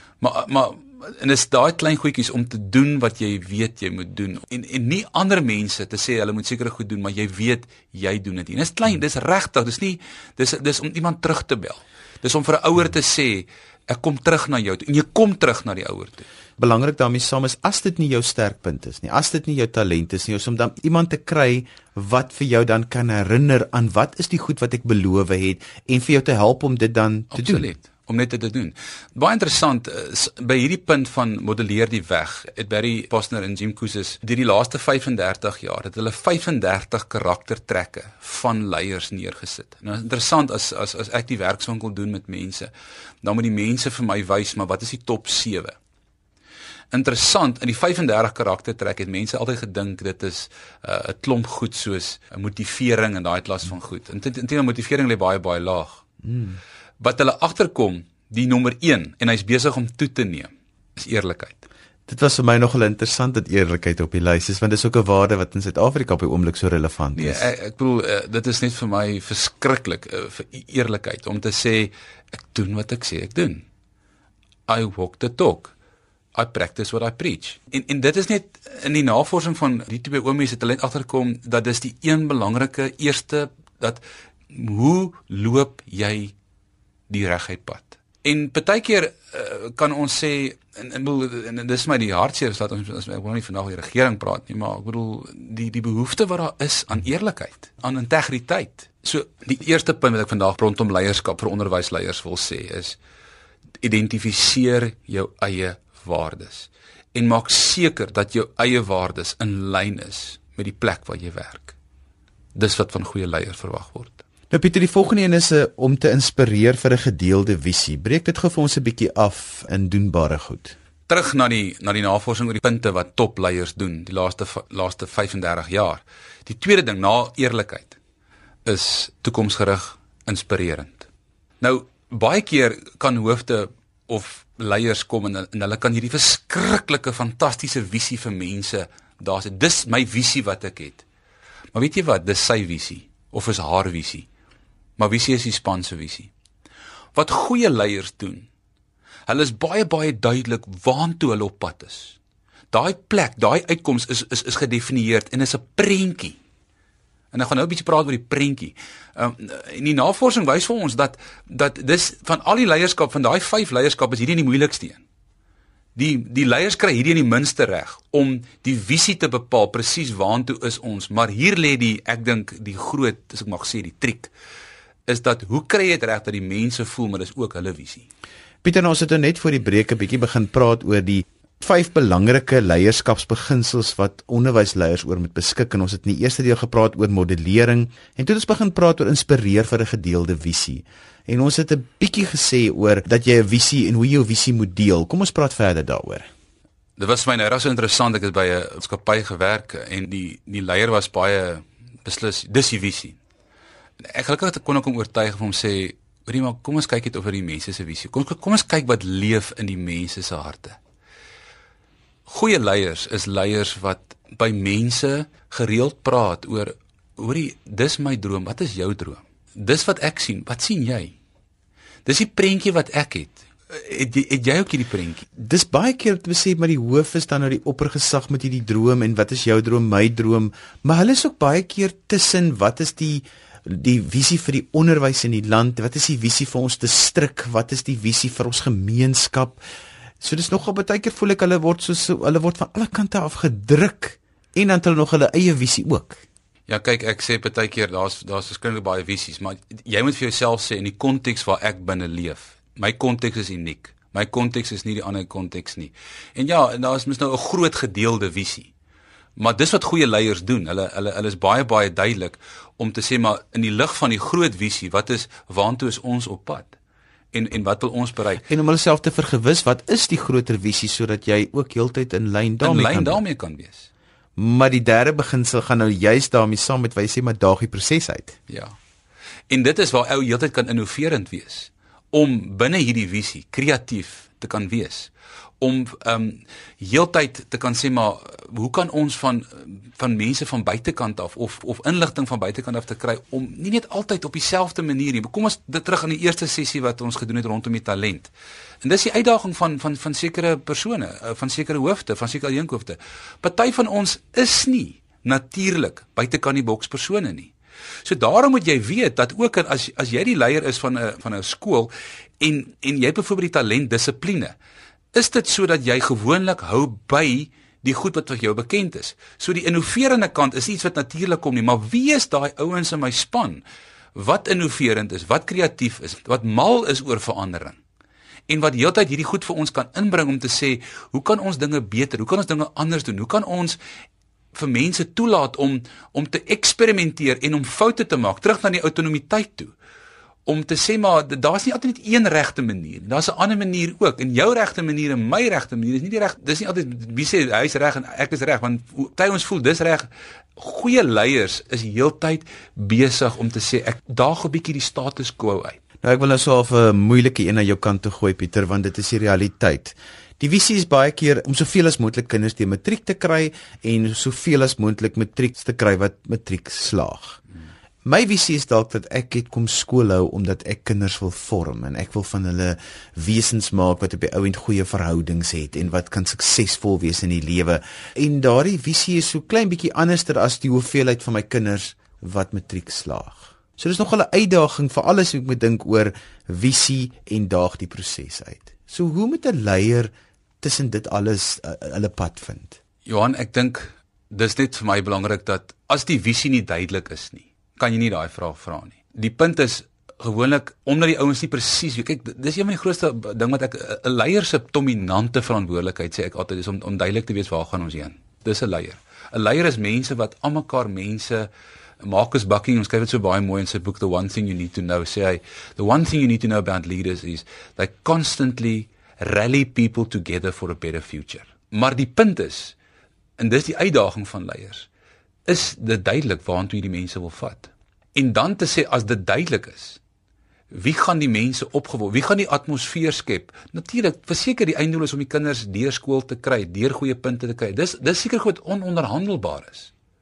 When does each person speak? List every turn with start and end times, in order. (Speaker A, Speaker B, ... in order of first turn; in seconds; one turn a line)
Speaker A: 0.2-16.2
Speaker B: 16.6-27.7
Speaker A: 27.3-42.7
Speaker A: 43.2-45.8
Speaker A: 46.9-56.0
Speaker B: 56.2-56.6
Speaker A: 57.0-61.6
Speaker B: 62.1-67.5
Speaker A: 67.1-73.6
Speaker A: 74.7-75.7
Speaker A: 76.3-86.3
Speaker A: 87.1-103.0
Speaker A: 103.8-111.8
Speaker A: 112.5-114.2
Speaker B: 114.5-120.8
Speaker A: 121.1-128.0
Speaker A: 128.6-131.1
Speaker A: 131.6-141.0
Speaker A: 141.7-144.3
Speaker A: 145.0-146.3
Speaker A: 147.1-148.5
Speaker A: 149.3-152.2
Speaker A: 152.7-156.4
Speaker A: 157.3-165.0
Speaker A: 165.9-174.3
Speaker A: 175.1-178.1
Speaker B: 178.6-196.3
Speaker A: 197.0-203.2
Speaker A: 204.0-210.8
Speaker A: 212.3-221.1
Speaker A: 222.1-225.3
Speaker B: 225.4-239.6
Speaker B: 240.2-246.2
Speaker A: 246.7-258.7
Speaker A: 259.4-266.7
Speaker A: 267.3-268.5
Speaker B: 268.4-273.2
Speaker A: 272.6-273.9
Speaker B: 274.4-278.4
Speaker A: 278.5-278.8
Speaker A: 279.5-298.3
Speaker A: 298.8-307.5
Speaker A: 308.0-314.6
Speaker A: 315.1-323.6
Speaker A: 324.1-327.8
Speaker A: 328.5-333.8
Speaker A: 334.5-339.7
Speaker A: 340.5-355.8
Speaker B: 356.0-367.4
Speaker B: 368.0-392.8
Speaker A: 393.0-411.5
Speaker A: 412.0-422.8
Speaker A: 423.4-424.9
Speaker A: 425.5-430.0
Speaker A: 430.7-439.9